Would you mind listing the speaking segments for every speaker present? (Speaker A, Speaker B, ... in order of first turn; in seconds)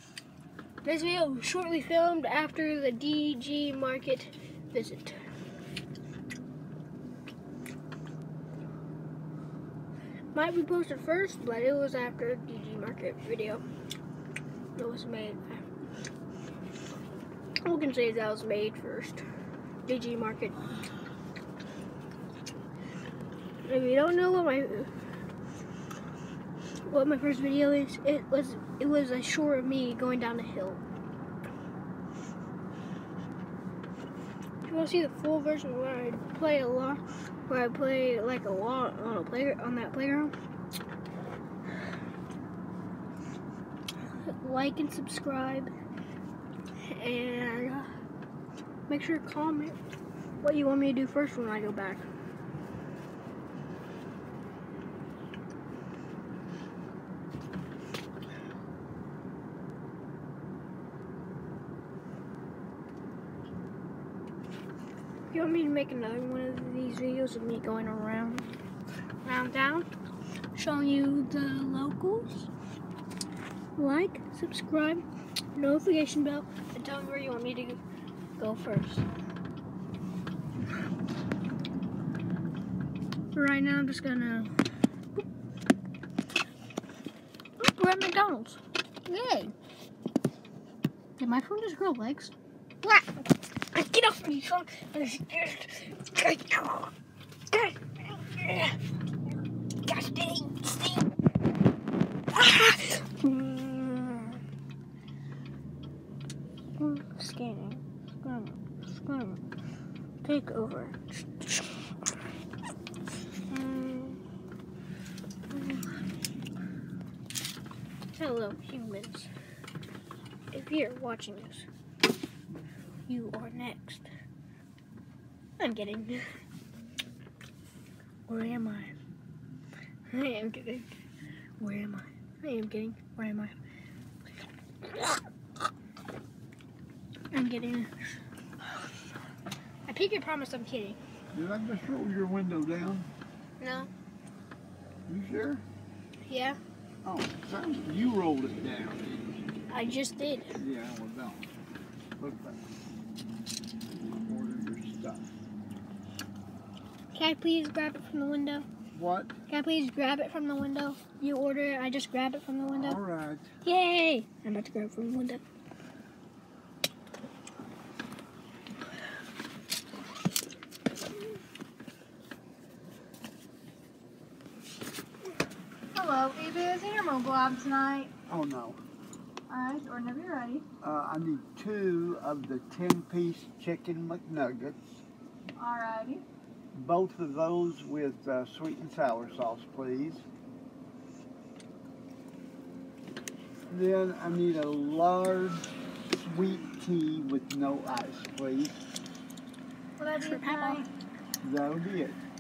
Speaker A: 0.8-5.2, 10.3-13.6, 14.8-15.6, 17.6-19.2, 19.8-20.7, 23.6-24.9, 26.9-30.8, 34.7-40.3, 44.1-45.7, 46.8-47.9, 48.9-49.8, 50.4-52.0, 65.3-68.5, 69.2-69.9, 70.5-72.5, 73.8-75.0, 75.5-77.8, 78.4-79.0, 83.3-84.5, 87.6-89.5, 91.2-96.9, 97.5-98.8, 99.8-101.1, 102.3-104.4, 106.8-109.4, 110.2-111.6, 113.5-114.2, 115.5-115.9, 118.1-119.3, 120.5-121.7, 123.1-124.1, 125.6-126.3, 128.3-128.9, 130.1-130.9, 131.6-133.5, 134.8-135.2, 137.3-138.1, 139.9-141.0, 143.6-143.9, 146.2-146.6, 149.7-150.5, 157.1-158.7, 159.5-163.0, 163.6-165.4, 200.2-200.8
Speaker B: 141.3-143.1, 145.1-145.6, 147.0-149.4, 150.5-151.5, 152.2-152.6, 153.9-155.3, 158.9-159.3, 162.7-163.5, 178.3-178.8, 180.8-185.0, 186.7-190.2, 193.7-198.8, 201.4-202.2
Speaker C: 175.9-178.1, 179.5-180.6, 185.6-186.2, 200.0-200.9